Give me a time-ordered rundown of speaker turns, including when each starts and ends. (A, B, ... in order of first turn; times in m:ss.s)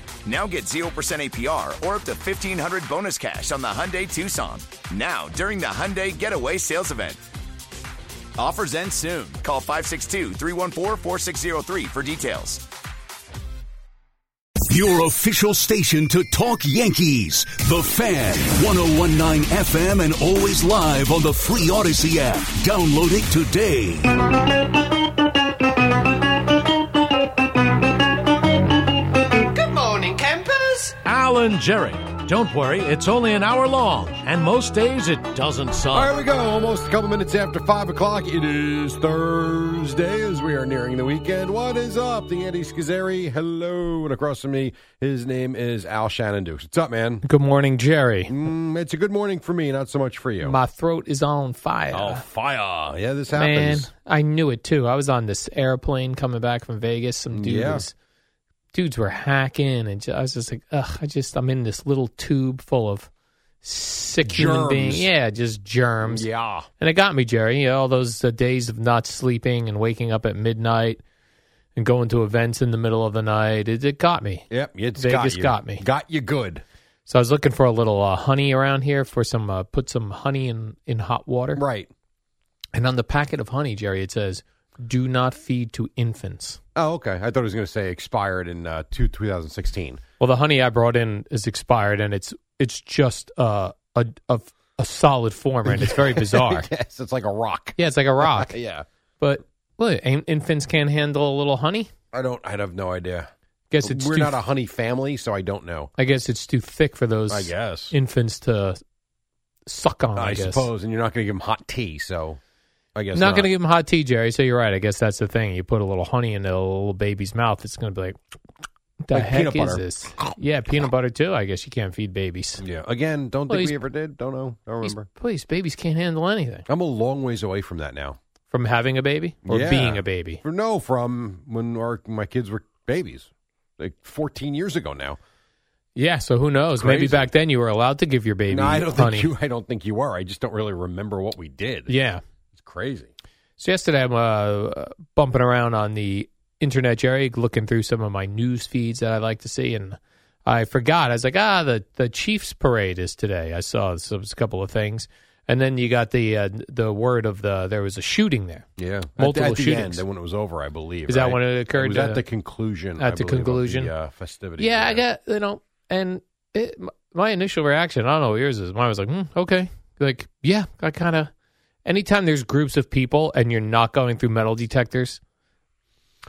0:00.2-0:07.2 A
0:08.4-0:12.6 A
0:14.7-0:24.0 B
0:31.1-0:36.1 C
0:35.9-0:47.2 D
0:47.2-0:48.3 E
0:48.3-0:50.6 D
0:50.4-0:52.2 E
0:51.9-0:53.9 D
0:53.3-0:57.9 E
0:57.3-0:57.9 D
0:58.7-1:03.1 E
1:03.6-1:06.2 E
1:04.2-1:05.1 D
1:06.0-1:06.7 D
1:06.8-1:11.0 E
1:11.8-1:15.8 E
1:14.5-1:16.6 D
1:17.1-1:21.6 E
1:21.5-1:21.9 D
1:22.7-1:26.6 E
1:26.7-1:30.0 D
1:30.2-1:36.7 E
1:35.6-1:38.8 D
1:37.8-1:38.5 E
1:39.2-1:41.9 E
1:42.1-1:43.3 D
1:43.7-1:44.4 E
1:43.8-1:45.9 D
1:46.0-1:48.8 E
1:47.3-1:47.9 D
1:49.6-1:50.7 E
1:50.2-1:52.4 D
1:52.9-1:53.5 D
1:53.1-1:58.2 E
1:59.0-2:02.6 E
1:59.1-2:00.3 D
2:02.6-2:05.1 D
2:03.5-2:03.8 E
2:04.8-2:06.6 E
2:06.7-2:08.2 D
2:08.5-2:10.4 E
2:09.4-2:15.2 D
2:15.9-2:19.3 E
2:16.8-2:17.3 D
2:18.5-2:21.9 D
2:21.9-2:22.2 E
2:22.5-2:23.1 D
2:23.6-2:40.0 E
2:38.8-2:45.0 D
2:41.1-2:42.2 E
2:43.0-2:43.9 E
2:44.6-2:51.3 E
2:51.8-2:55.2 E